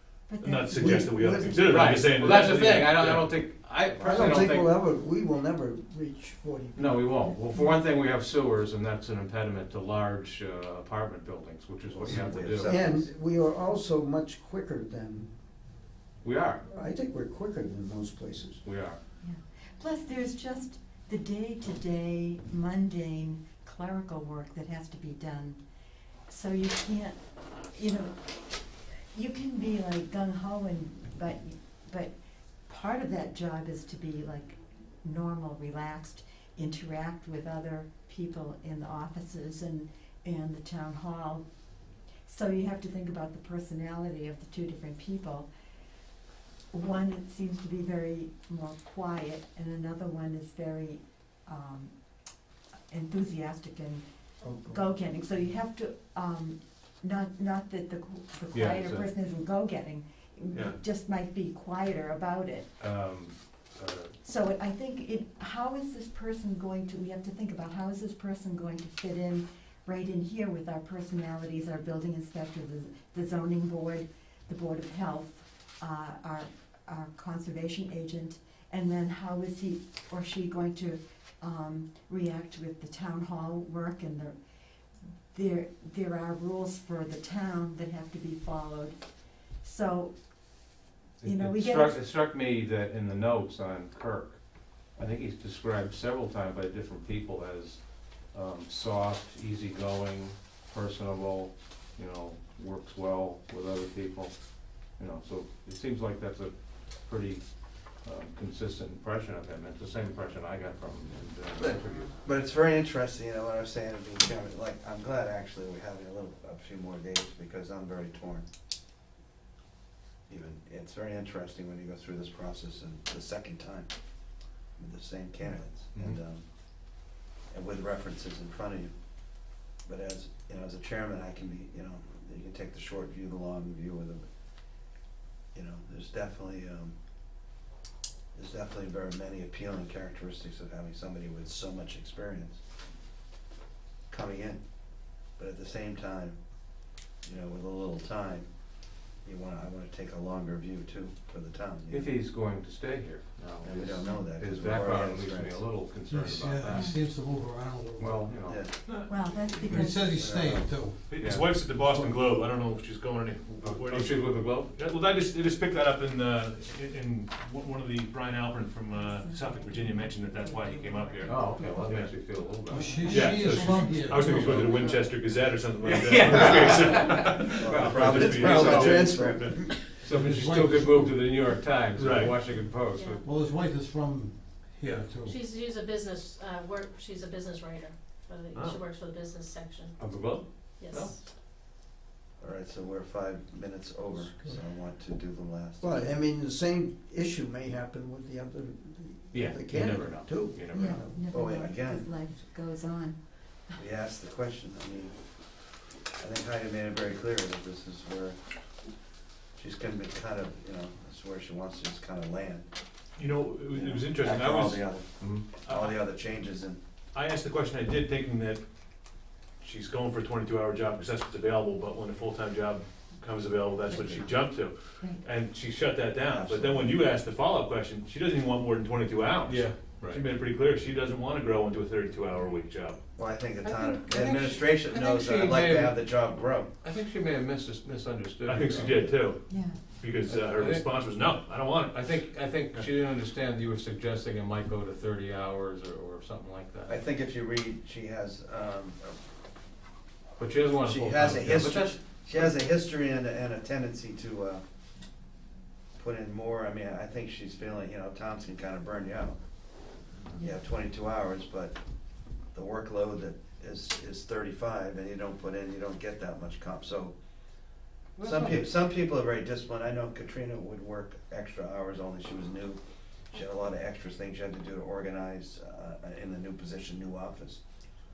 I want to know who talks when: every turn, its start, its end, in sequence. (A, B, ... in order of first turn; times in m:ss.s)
0:00.3-0:01.0 A
0:00.4-0:03.3 B
0:00.7-0:02.0 C
0:01.6-0:04.8 D
0:04.0-0:07.4 C
0:06.7-0:12.9 D
0:11.9-0:12.9 E
0:12.6-0:15.4 C
0:16.2-0:16.6 D
0:16.6-0:18.6 C
0:18.6-0:19.0 D
0:19.2-0:25.6 A
0:26.3-0:32.1 A
0:32.7-0:41.4 A
0:42.2-0:45.5 A
0:46.7-0:51.9 A
0:52.9-0:54.0 A
0:54.4-0:54.8 C
0:54.6-1:02.7 A
0:58.5-0:59.1 D
1:02.8-1:04.2 D
1:04.2-1:24.4 A
1:25.3-1:29.0 A
1:29.6-1:30.6 A
1:31.2-1:44.3 D
1:31.2-1:32.1 A
1:45.0-1:47.4 D
1:48.0-1:52.2 D
1:51.6-1:58.4 E
2:00.3-2:03.9 E
2:04.8-2:06.4 E
2:05.9-2:06.2 D
2:07.5-2:08.9 E
2:09.8-2:14.2 E
2:15.5-2:16.9 E
2:18.3-2:22.6 E
2:24.1-2:24.6 E
2:25.4-2:26.4 E
2:27.2-2:28.5 E
2:29.2-2:32.1 E
2:31.9-2:37.0 D
2:33.6-2:35.6 E
2:36.0-2:38.4 F
2:38.0-2:38.7 D
2:38.4-2:38.7 E
2:38.8-2:39.7 B
2:39.0-2:40.5 A
2:39.6-2:41.1 F
2:40.2-2:40.6 E
2:41.1-2:52.1 B
2:41.1-2:42.2 D
2:43.6-2:44.8 D
2:49.0-2:49.4 A
2:51.2-2:53.4 D
2:52.7-2:54.8 F
2:53.0-2:59.6 B
2:53.5-2:53.8 A
2:54.3-2:54.7 D
2:55.8-2:59.0 D
2:57.6-2:59.6 E
2:58.2-2:59.9 C
2:59.9-3:03.3 D
3:00.1-3:01.2 F
3:01.9-3:02.4 B
3:02.9-3:03.2 G
3:03.2-3:05.4 F
3:05.2-3:10.0 G
3:08.5-3:08.8 B
3:10.0-3:11.2 D
3:10.8-3:11.2 G
3:12.4-3:16.1 E
3:15.8-3:21.2 C
3:19.3-3:21.0 D
3:20.7-3:23.8 A
3:21.2-3:22.1 E
3:23.8-3:25.2 E
3:26.2-3:28.4 E
3:29.6-3:32.7 E
3:33.2-3:34.9 B
3:33.7-3:36.8 E
3:35.2-3:35.4 D
3:35.6-3:36.0 B
3:37.1-3:38.6 B
3:39.6-3:53.0 B
3:43.9-3:44.2 A
3:46.3-3:47.0 E
3:49.5-3:50.2 D
3:53.2-3:56.7 E
3:53.6-3:56.2 D
3:56.8-3:59.3 D
3:58.4-4:02.0 B
3:59.5-3:59.8 A
4:00.2-4:00.9 D
4:01.8-4:07.0 D
4:06.9-4:09.2 E
4:10.4-4:12.5 D
4:10.8-4:14.6 E
4:16.0-4:19.4 E
4:20.4-4:21.8 E
4:22.5-4:27.1 E
4:28.2-4:28.7 D
4:28.2-4:32.8 E
4:33.3-4:37.6 E